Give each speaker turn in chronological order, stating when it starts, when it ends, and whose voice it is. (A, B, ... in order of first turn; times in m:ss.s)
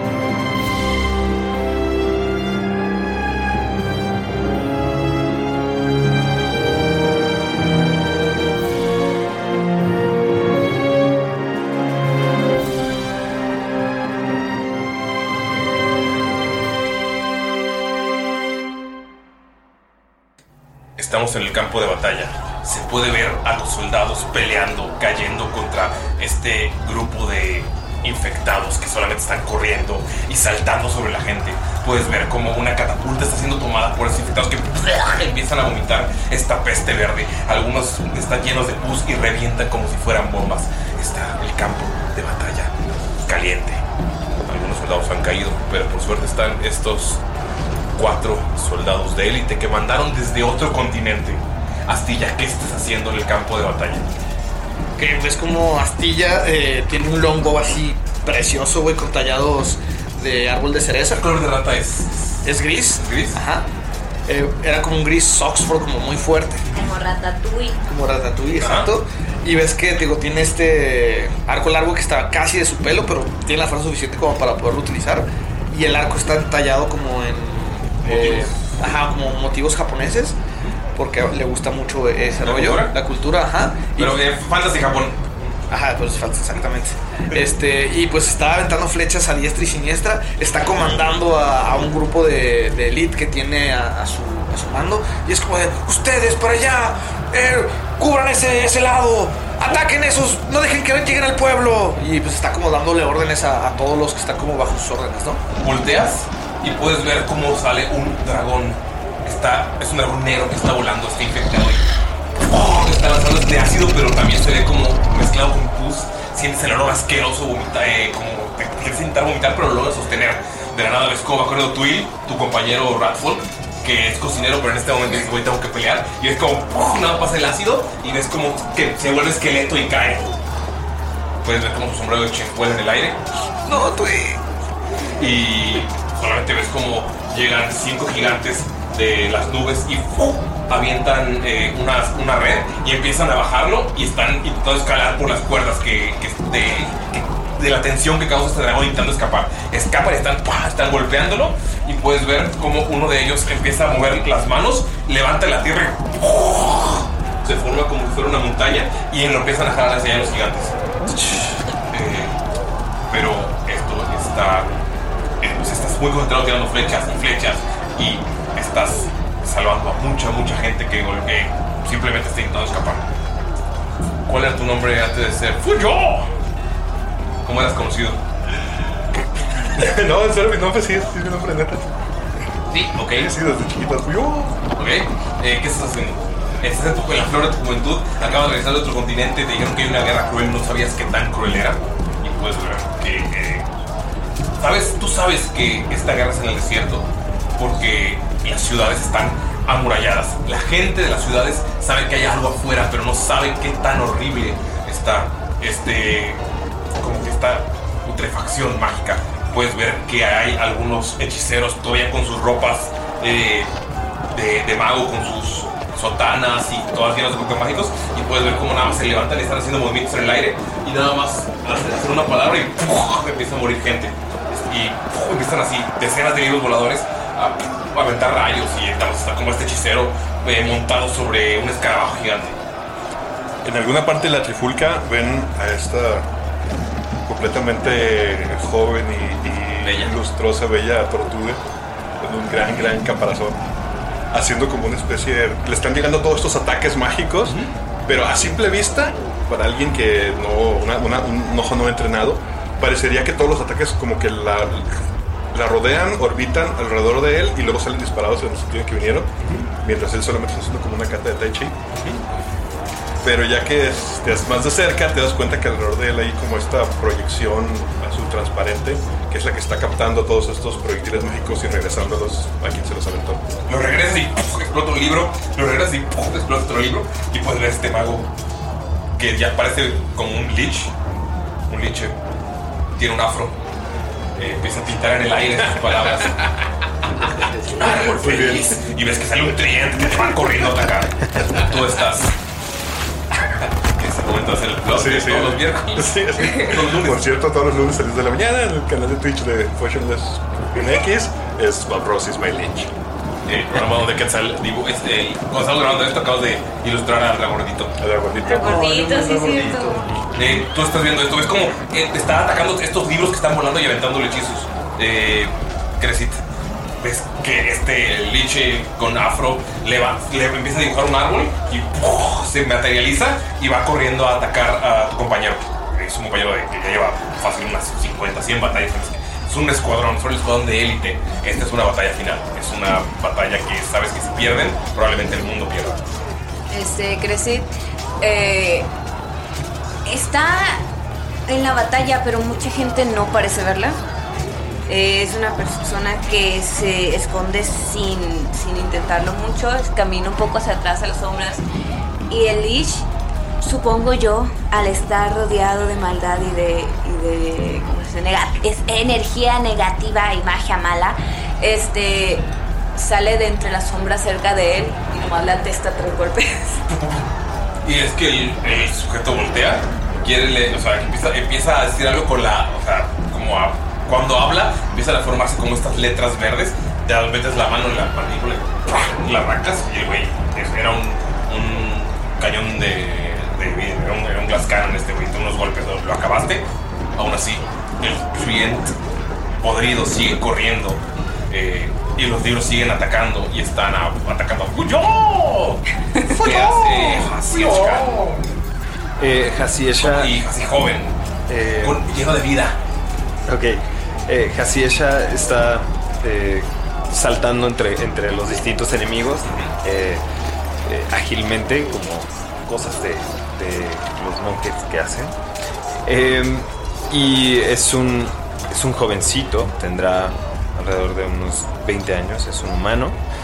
0:21.0-0:43.8 A
0:44.4-0:47.2 A
0:48.0-0:54.1 A
0:55.0-1:01.2 B
1:01.2-1:03.4 A
1:02.4-1:03.7 B
1:04.3-1:06.7 B
1:06.7-1:07.8 C
1:07.8-1:20.4 B
1:08.6-1:08.9 A
1:18.0-1:18.6 A
1:20.9-1:24.2 B
1:22.4-1:23.0 A
1:24.0-1:25.6 A
1:25.7-1:45.4 B
1:45.6-2:10.4 A
2:11.4-2:13.2 A
2:13.7-2:14.4 B
2:15.2-2:40.8 A
2:41.9-2:42.4 A
2:43.1-2:44.8 A
2:45.4-2:53.1 A
2:54.3-2:56.3 A
2:57.4-2:58.2 A
2:59.7-3:01.9 D
3:02.7-3:03.3 A
3:03.1-3:04.6 D
3:04.8-3:13.7 A
3:14.6-3:26.4 A
3:27.0-3:33.7 A
3:34.3-3:52.6 A
3:53.6-3:56.3 D
3:57.3-4:01.6 D
3:59.8-4:00.1 A
4:02.2-4:03.6 D
4:04.3-4:14.9 D
4:07.4-4:07.7 A
4:15.5-4:21.8 D
4:19.4-4:19.7 A
4:21.9-4:22.2 A
4:23.2-4:33.5 D
4:33.7-4:38.3 A
4:39.2-4:40.9 A
4:41.7-4:42.2 A
4:43.0-4:43.6 A
4:44.4-4:46.6 A
4:47.4-4:48.0 B
4:47.7-4:52.3 A
4:48.1-4:48.7 D
4:53.6-4:57.3 A
4:54.9-5:02.9 D
5:03.5-5:08.0 A
5:08.0-5:10.3 D
5:08.4-5:10.1 C
5:10.3-5:16.4 A
5:17.0-5:36.1 A
5:36.7-5:37.7 C
5:38.2-5:38.9 C
5:40.1-5:40.8 C
5:41.5-5:44.0 C
5:44.9-5:51.6 C
5:52.3-5:53.1 C
5:53.6-6:06.8 C
6:06.9-6:07.3 A
6:07.8-6:29.0 A
6:29.6-6:38.4 A
6:39.2-6:40.4 E
6:40.0-6:41.2 A
6:41.5-6:42.0 E
6:41.8-6:42.8 A
6:43.5-6:50.2 E
6:49.5-6:49.7 A
6:50.8-6:55.4 E
6:56.0-7:03.2 E